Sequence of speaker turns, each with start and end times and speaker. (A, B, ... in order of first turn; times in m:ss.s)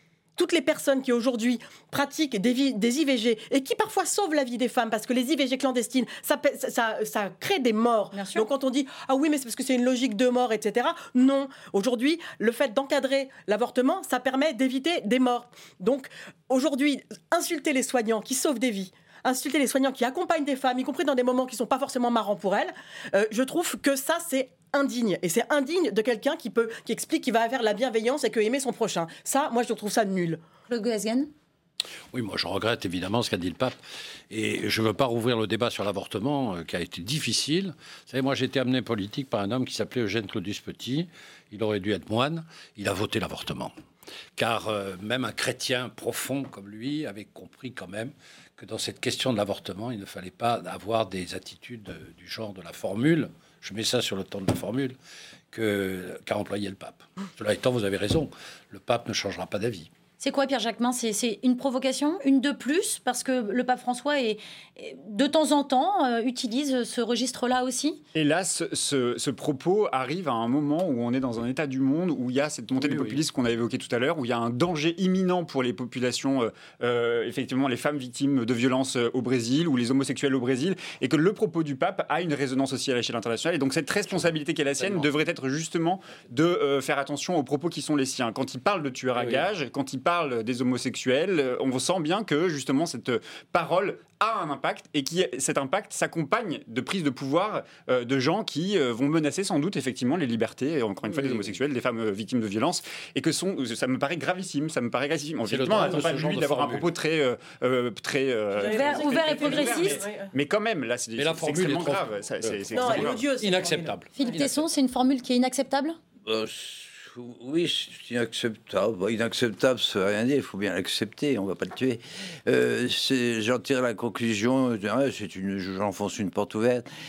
0:00.4-0:30.4 A
0:08.1-0:08.5 B
0:30.7-0:31.3 B
0:32.1-0:33.8 C
0:34.3-0:43.7 C
0:44.4-0:55.0 C
0:55.5-0:59.9 C
1:00.2-1:08.0 B
1:08.1-1:53.4 D
1:12.7-1:13.2 C
1:24.1-1:25.1 C
1:29.1-1:29.5 C
1:41.1-1:41.4 C
1:45.4-1:46.9 C
1:48.5-1:50.3 A
1:48.6-1:50.0 B
1:51.1-1:54.6 C
1:52.7-1:54.5 A
1:54.1-1:56.0 B
1:56.3-2:06.9 E